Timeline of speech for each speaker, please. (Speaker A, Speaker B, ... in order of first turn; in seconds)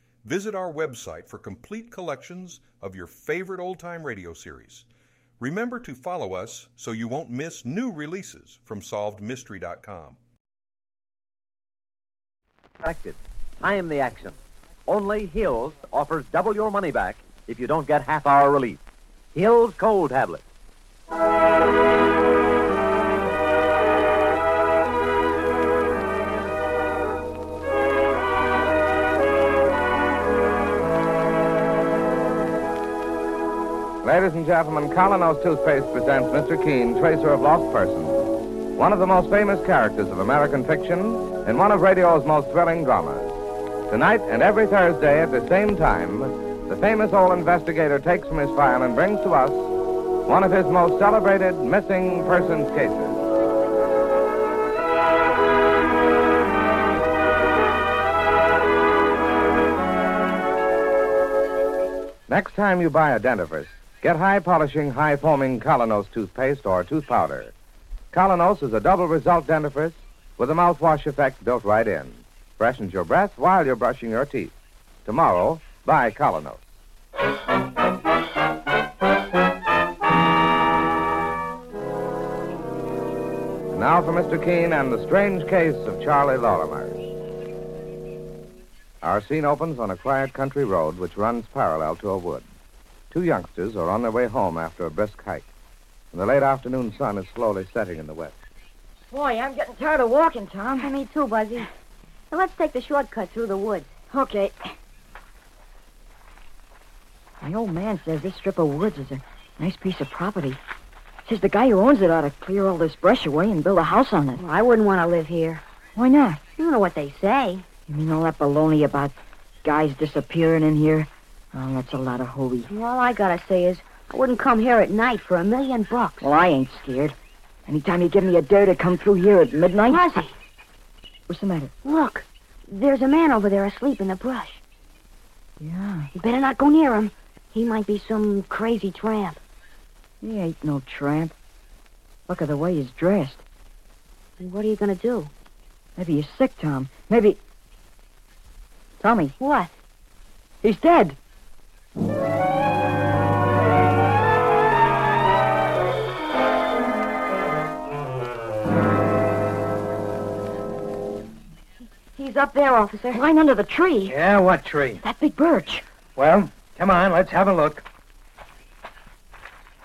Speaker A: 0.2-4.9, 5.4-10.2
Speaker B: 12.8-14.4, 14.9-18.8, 19.3-20.4
Speaker C: 34.0-43.4, 43.9-49.7, 50.3-53.2, 62.3-67.5, 68.1-74.5, 75.1-76.6, 83.8-87.0, 89.0-92.5, 93.1-95.5, 96.1-98.3
Speaker D: 99.1-100.9, 104.1-104.8, 107.4-110.6, 111.2-114.4, 116.0-116.4, 117.9-122.7, 126.2-130.2, 131.3-131.7, 135.6-136.1, 140.2-141.3, 142.3-143.4, 146.0-147.4, 149.0-149.4, 150.6-151.2, 163.1-164.2, 165.0-165.8
Speaker E: 100.8-101.7, 102.3-103.9, 114.4-115.6, 116.6-117.7, 122.7-126.3, 129.9-130.3, 131.8-134.6, 136.1-139.4, 144.4-145.3, 149.4-149.7, 162.1-163.2
Speaker F: 164.1-165.0, 166.2-167.8